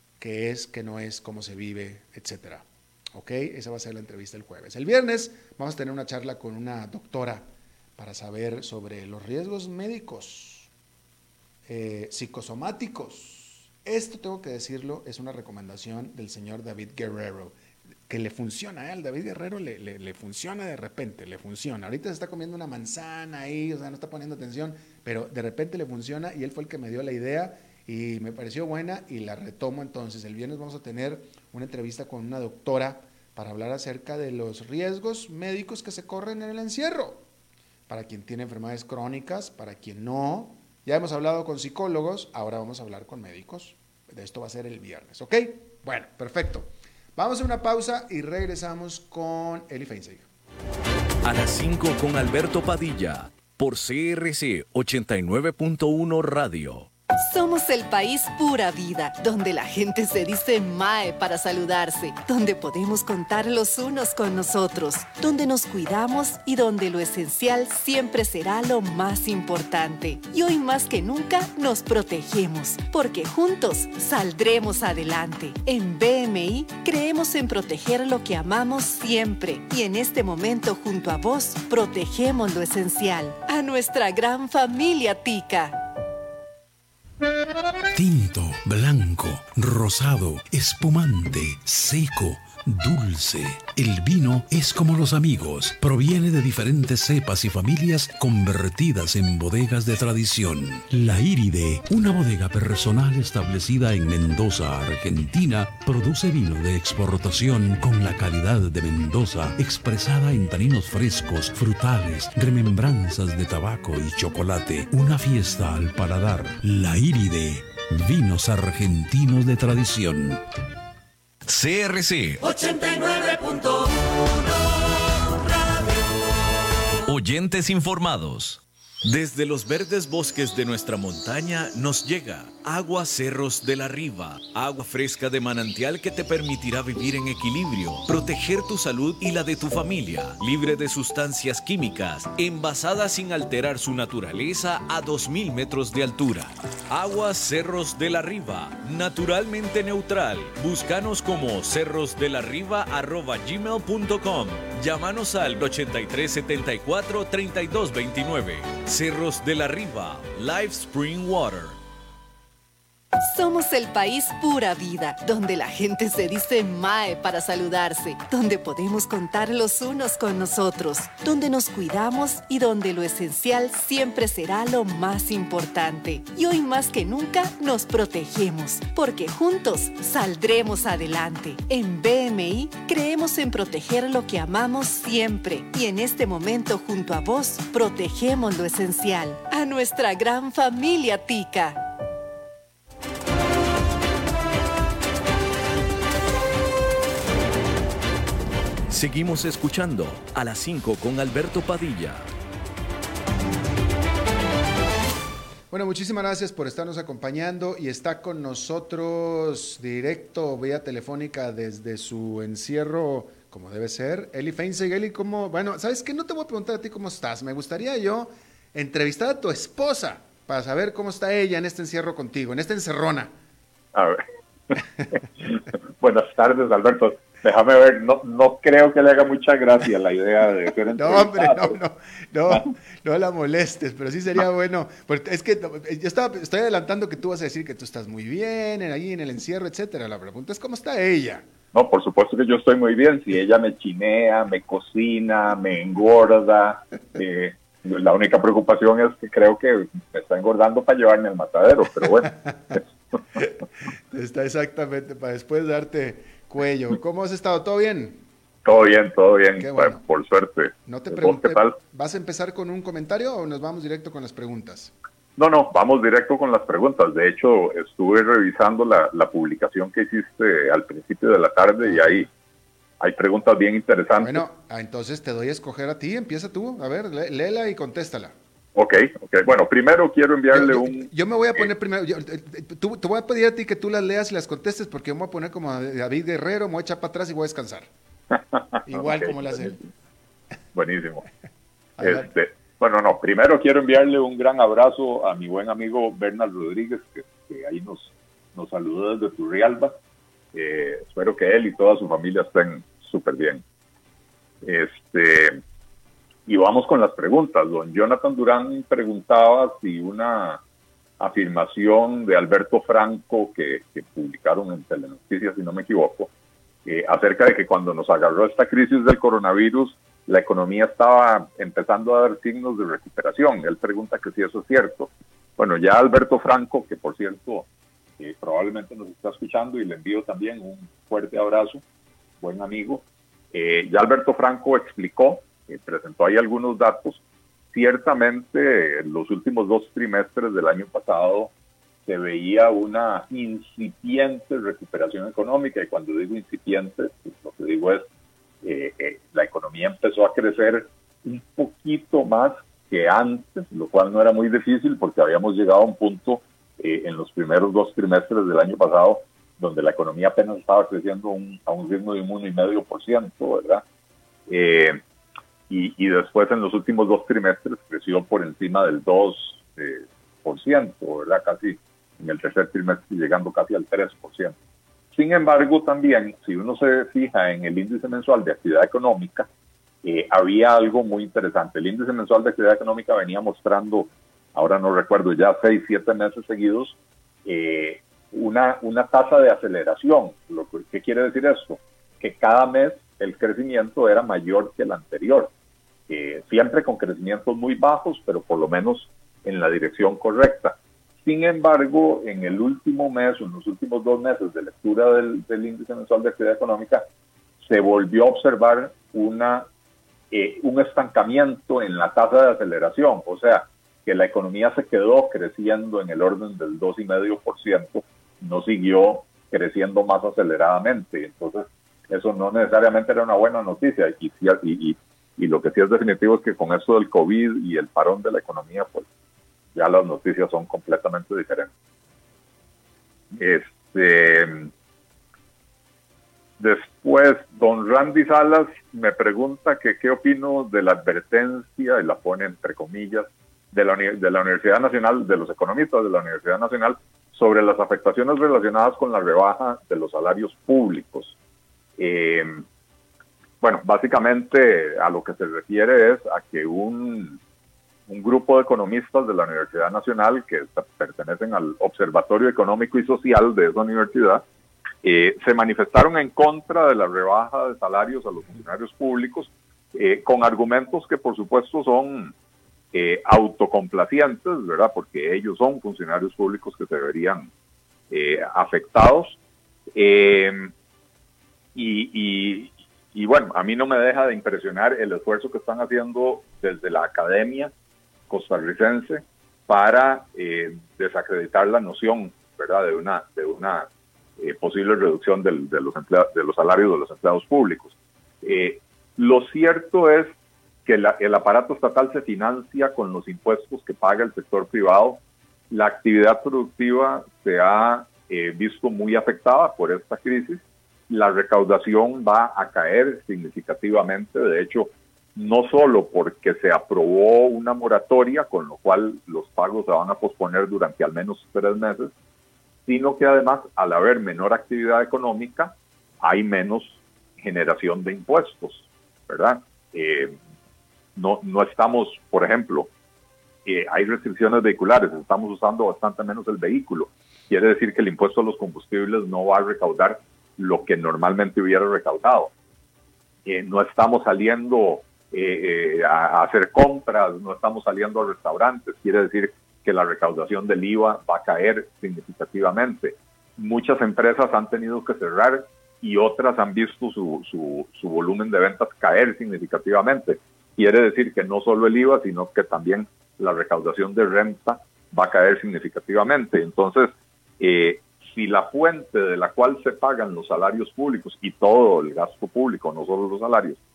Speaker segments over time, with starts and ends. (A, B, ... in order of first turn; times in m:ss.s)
0:00.2-0:10.7 A
0:11.7-0:17.6 A
0:18.1-0:37.2 A
0:37.9-0:50.3 A
0:51.2-0:56.9 B
0:57.2-1:25.8 C
1:28.0-2:00.4 D
2:01.5-2:02.4 B
2:03.1-2:03.4 D
2:07.0-2:41.8 B
2:43.2-3:11.8 C
3:18.9-3:22.3 B
3:25.7-3:43.3 A
3:43.9-3:51.7 E
3:51.0-4:01.5 A
4:01.7-4:12.8 E
4:14.1-4:18.2 A
4:18.6-4:21.8 E
4:19.6-4:20.0 A
4:20.8-4:24.9 A
4:25.4-4:32.3 E
4:33.0-4:34.4 E
4:34.2-4:38.3 A
4:38.8-4:41.1 E
4:40.5-4:47.9 A
4:48.4-4:49.8 E
4:48.8-4:49.8 A
4:50.7-4:51.2 E
4:52.0-4:52.3 A
4:52.0-4:59.9 E
5:00.5-5:03.6 E
5:04.6-5:05.6 E
5:06.5-5:10.6 E
5:11.2-5:16.3 E
5:16.8-5:27.7 E
5:28.2-5:31.8 E
5:32.4-5:37.2 E
5:37.7-5:41.5 E
5:42.0-5:48.1 E
5:48.6-6:03.8 E
6:04.5-6:05.0 E
6:05.7-6:14.5 E
6:15.1-6:19.5 E
6:20.0-6:35.5 E
6:36.1-6:47.0 E
6:47.6-6:49.7 E
6:50.3-7:09.1 E
7:09.7-7:11.7 E
7:13.3-7:14.7 E
7:16.6-7:31.4 E
7:32.0-7:32.6 E
7:33.6-7:37.4 E
7:38.1-7:44.4 E
7:45.0-7:52.3 E
7:52.9-7:57.5 E
7:58.1-7:59.4 E
7:59.9-8:00.7 E
8:01.7-8:07.7 E
8:08.3-8:13.9 E
8:14.4-8:20.3 E
8:20.8-8:42.1 E
8:42.9-8:50.4 E
8:51.2-8:52.9 E
8:53.6-9:02.5 E
9:03.4-9:33.8 E